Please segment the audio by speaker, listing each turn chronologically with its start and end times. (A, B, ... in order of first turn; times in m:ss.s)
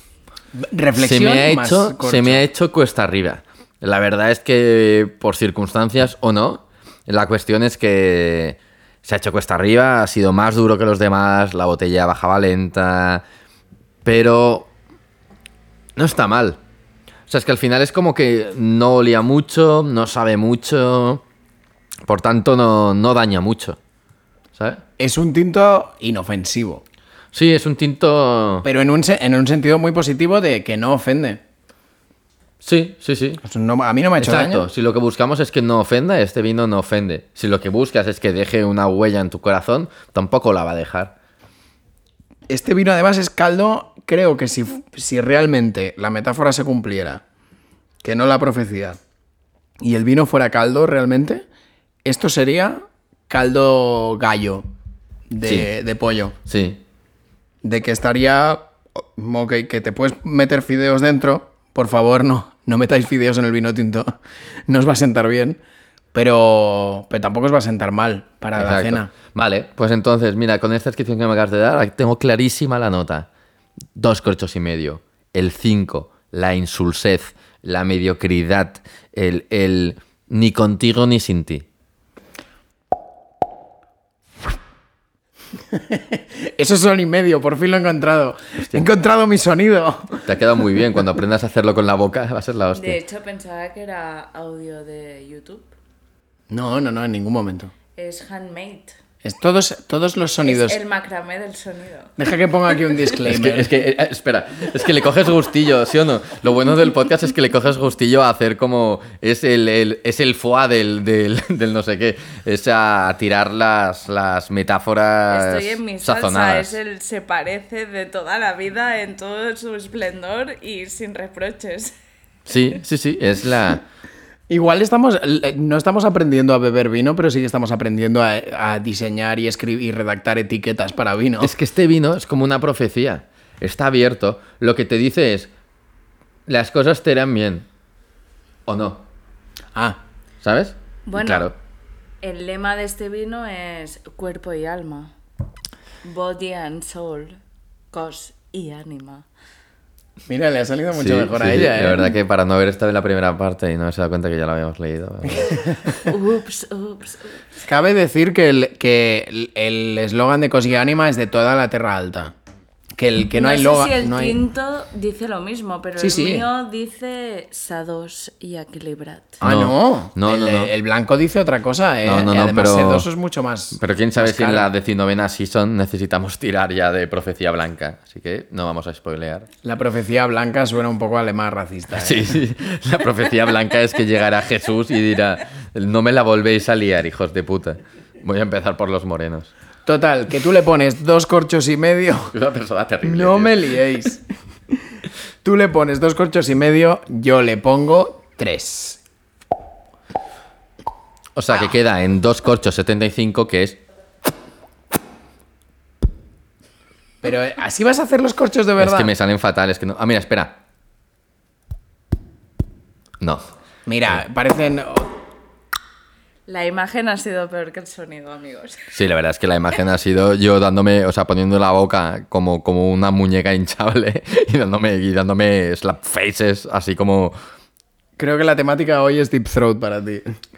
0:00.5-0:02.4 A
0:00.9-0:13.2 B
0:14.0-0:14.7 B
0:16.0-0:16.6 B
0:17.3-0:21.2 B
0:22.0-0:23.8 B
0:24.5-0:24.8 B
0:25.0-0:26.8 A
0:27.3-0:28.7 B
0:28.6-0:31.4 A
0:32.6-0:33.4 B
0:33.4-0:34.6 A
0:34.2-0:41.1 B
0:42.5-0:47.2 A
0:48.0-0:49.0 A
0:49.8-0:51.4 A
0:52.0-0:54.7 A
0:55.3-0:56.4 A
0:56.5-0:56.8 B
0:57.6-1:04.2 A
1:04.7-1:05.6 A
1:06.1-1:09.1 A
1:08.6-1:13.3 B
1:13.9-1:21.6 B
1:25.7-1:30.2 A
1:30.2-1:33.0 B
1:32.7-1:35.7 C
1:36.5-1:37.7 A
1:38.0-1:39.0 C
1:39.2-1:40.8 A
1:40.4-1:42.1 C
1:42.2-1:43.7 A
1:43.2-1:56.8 B
1:55.3-2:01.9 C
2:02.4-2:03.8 B
2:04.5-2:11.5 A
2:11.4-2:15.5 B
2:16.5-2:17.6 B
2:18.6-2:19.0 B
2:19.7-2:20.0 A
2:20.4-2:21.5 B
2:21.0-2:21.5 C
2:22.2-2:25.1 C
2:26.0-2:27.4 C
2:27.9-2:29.2 C
2:30.3-2:32.1 A
2:30.9-2:35.6 B
2:35.4-2:35.8 A
2:36.0-2:37.4 C
2:37.6-2:42.3 A
2:43.0-2:44.4 A
2:43.3-2:49.4 C
2:46.0-2:46.4 A
2:49.4-2:50.7 B
2:49.4-2:54.7 A
2:52.0-2:53.1 B
2:53.7-2:59.5 B
2:59.6-3:02.4 A
3:01.9-3:09.5 B
3:09.8-3:12.3 A
3:12.3-3:13.8 B
3:13.0-3:14.2 A
3:15.4-3:19.0 A
3:21.4-3:23.8 B
3:27.2-3:29.1 A
3:28.8-3:30.6 B
3:33.2-3:33.5 B
3:33.8-3:35.1 A
3:36.5-3:38.9 C
3:38.9-3:47.3 B
3:48.2-3:50.4 A